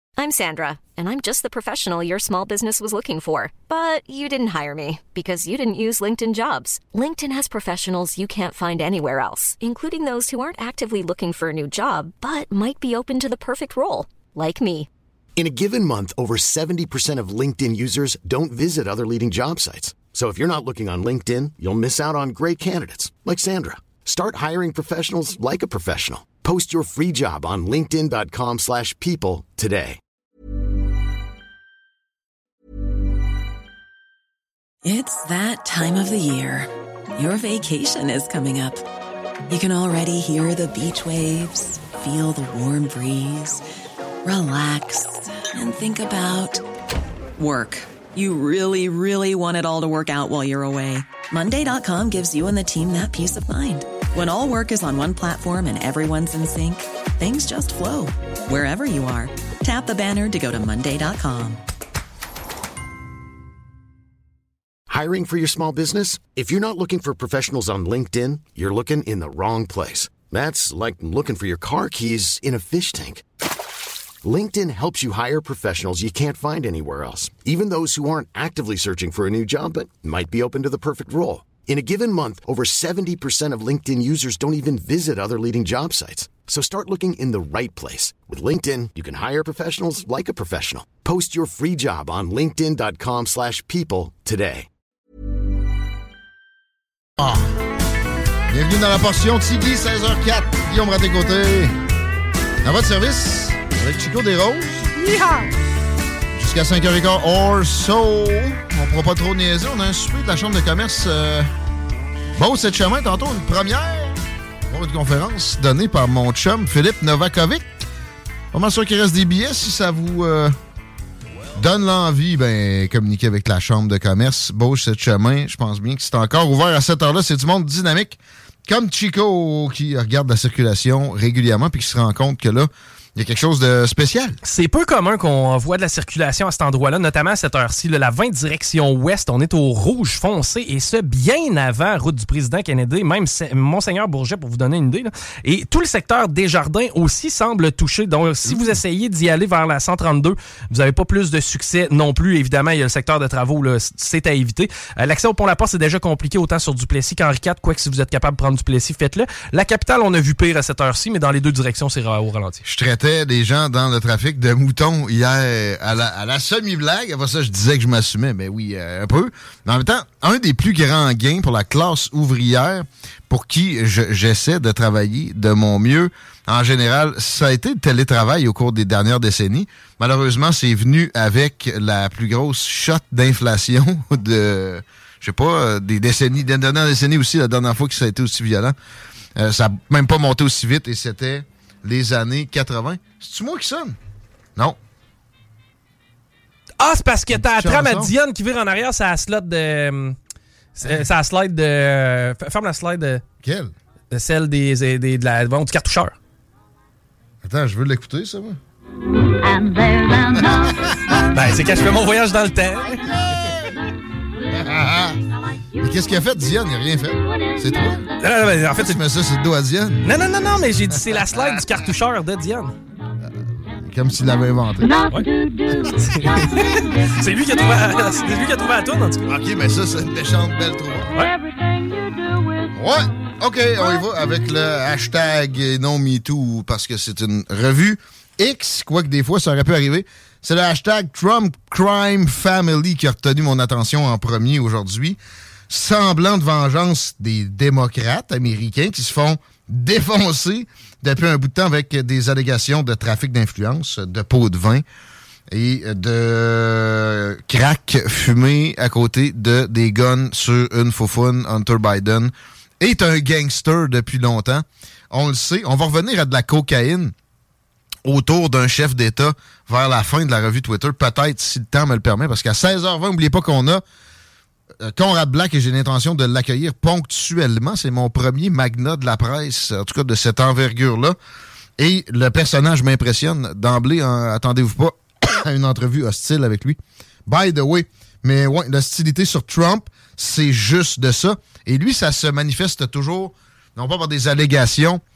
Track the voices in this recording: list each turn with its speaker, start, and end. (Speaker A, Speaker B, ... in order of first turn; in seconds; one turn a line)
Speaker A: 0.2-14.9
Speaker B: 15.4-30.0
Speaker C: 34.8-38.8
Speaker C: 39.5-43.6
Speaker C: 44.2-46.6
Speaker C: 47.4-61.6
Speaker B: 64.9-73.2
Speaker B: 74.2-94.7
Speaker D: 97.2-97.5
Speaker D: 98.5-101.7
Speaker D: 102.6-105.0
Speaker D: 106.3-111.5
Speaker D: 112.3-117.7
Speaker D: 118.5-120.5
Speaker D: 121.5-134.4
Speaker E: 134.4-162.6
Speaker D: 148.5-148.7
Speaker D: 162.6-188.7
Speaker D: 189.3-194.0
Speaker E: 196.8-200.2
Speaker D: 197.3-198.1
Speaker E: 200.8-203.2
Speaker D: 203.4-203.7
Speaker E: 204.1-206.1
Speaker D: 207.4-208.6
Speaker E: 209.6-210.6
Speaker D: 210.6-210.9
Speaker E: 211.3-213.6
Speaker D: 214.5-215.2
Speaker D: 215.8-218.0
Speaker E: 218.2-219.0
Speaker D: 218.7-220.2
Speaker E: 220.0-222.8
Speaker D: 221.3-221.6
Speaker D: 223.7-225.0
Speaker E: 225.8-229.3
Speaker D: 229.3-231.1
Speaker D: 232.7-245.2
Speaker D: 245.7-254.8
Speaker D: 255.5-267.1
Speaker D: 268.0-273.8
Speaker D: 274.8-281.1
Speaker D: 281.8-295.0